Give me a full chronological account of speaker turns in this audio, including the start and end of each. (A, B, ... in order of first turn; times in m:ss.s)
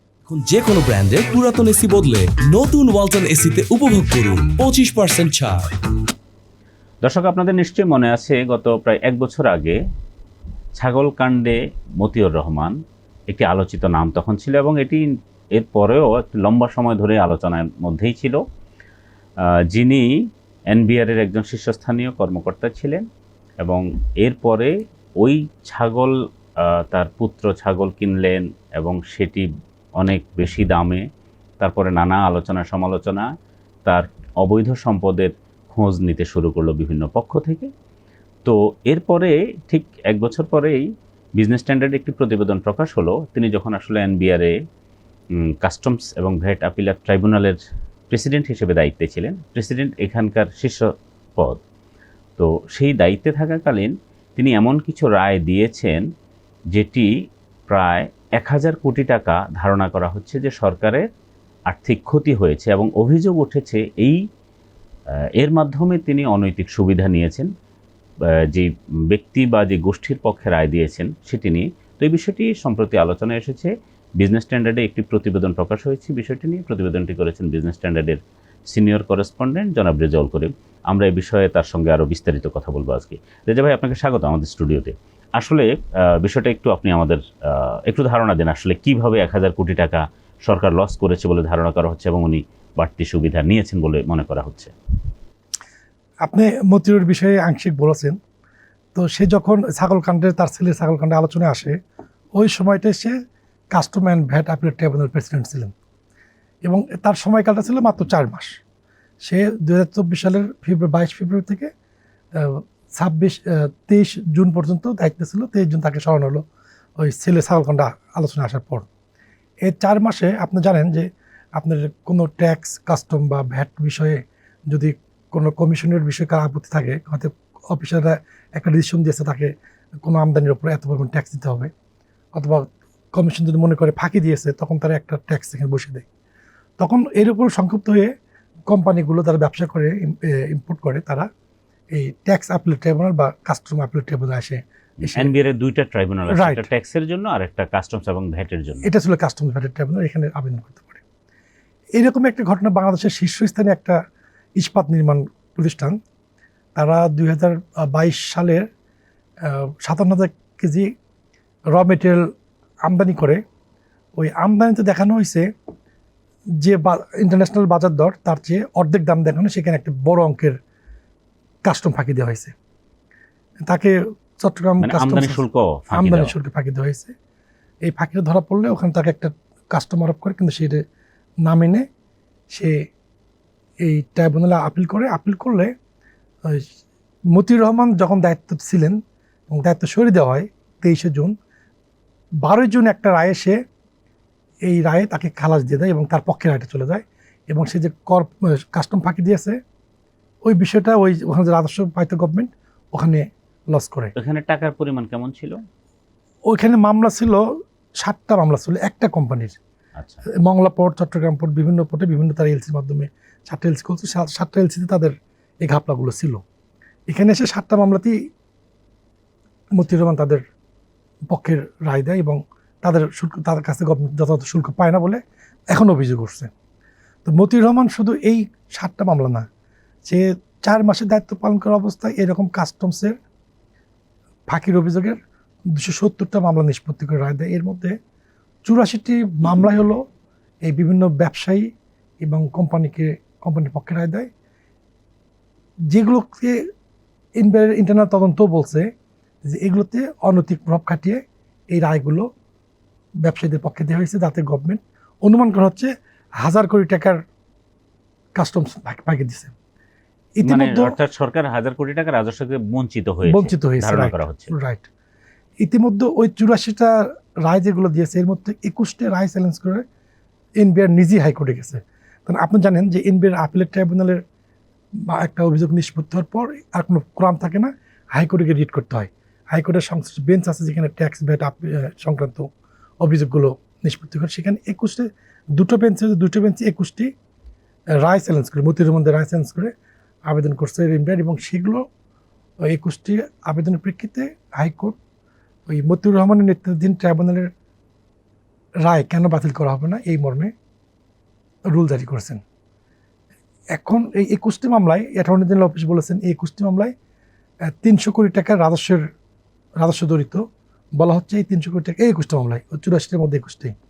0:00.3-0:05.7 A
0:07.0-0:09.8 B
0:10.8-0:12.7 B
0:13.3-0:15.0 B
0:15.5-0:18.4 B
0:19.7-0:20.1 B
0:20.7-0:23.0 B
0:23.6-0:26.1 B
0:26.9-0:29.5 B
0:30.0-0:31.0 B
0:31.6-0:33.3 B
0:33.8-0:37.7 B
0:38.4-0:40.8 B
0:41.4-0:44.5 B
0:45.6-0:47.6 B
0:48.1-0:50.8 B
0:52.4-0:56.0 B
0:56.7-0:57.1 B
0:57.7-1:01.0 B
1:01.7-1:04.2 B
1:05.4-1:07.5 B
1:08.5-1:18.2 B
1:18.7-1:34.7 B
1:36.2-1:38.2 C
1:38.9-1:41.7 C
1:42.4-1:43.1 C
1:43.7-1:45.7 C
1:46.6-1:48.5 C
1:49.2-1:51.7 C
1:52.4-1:56.4 C
1:57.0-1:58.8 C
1:59.6-2:01.0 C
2:01.6-2:04.2 C
2:04.7-2:09.5 C
2:10.0-2:11.7 C
2:12.3-2:16.0 C
2:16.8-2:18.1 C
2:18.7-2:21.3 C
2:21.9-2:25.3 C
2:25.0-2:28.9 B
2:26.3-2:26.7 C
2:28.8-2:31.0 C
2:32.0-2:34.0 C
2:34.6-2:36.0 C
2:36.7-2:38.6 C
2:39.4-2:40.9 C
2:41.7-2:42.2 C
2:42.8-2:43.4 C
2:44.2-2:45.4 C
2:46.6-2:50.6 C
2:51.6-2:52.5 C
2:53.7-2:57.1 C
2:54.8-2:56.3 B
2:57.8-3:00.8 C
3:01.4-3:01.8 C
3:03.8-3:05.7 C
3:07.3-3:09.0 C
3:09.5-3:11.3 C
3:12.4-3:13.6 C
3:14.7-3:19.6 C
3:20.4-3:24.1 C
3:24.2-3:25.6 B
3:26.5-3:27.4 C
3:28.0-3:29.6 C
3:30.0-3:30.2 B
3:30.4-3:36.4 C
3:37.1-3:38.1 C
3:39.7-3:40.4 C
3:41.3-3:46.5 C
3:47.2-3:49.4 C
3:50.0-3:53.1 C
3:54.5-3:55.2 C
3:55.7-3:57.9 C
3:58.6-4:00.0 C
4:00.6-4:01.6 C
4:02.2-4:04.3 C
4:05.9-4:06.6 C
4:07.4-4:08.9 C
4:09.4-4:11.2 C
4:11.7-4:12.3 C
4:13.2-4:15.9 C
4:16.4-4:17.2 C
4:18.4-4:19.5 C
4:20.4-4:21.0 C
4:20.4-4:24.5 B
4:23.2-4:24.8 C
4:25.6-4:29.8 C
4:30.6-4:34.2 C
4:35.1-4:42.4 C
4:43.0-4:47.1 C
4:48.0-4:49.7 C
4:50.3-4:51.8 C
4:52.7-4:55.0 C
4:55.7-4:57.5 C
4:58.8-5:00.5 C
5:01.7-5:02.4 C
5:03.7-5:06.9 C
5:07.8-5:09.0 C
5:09.8-5:10.4 C
5:11.0-5:13.7 C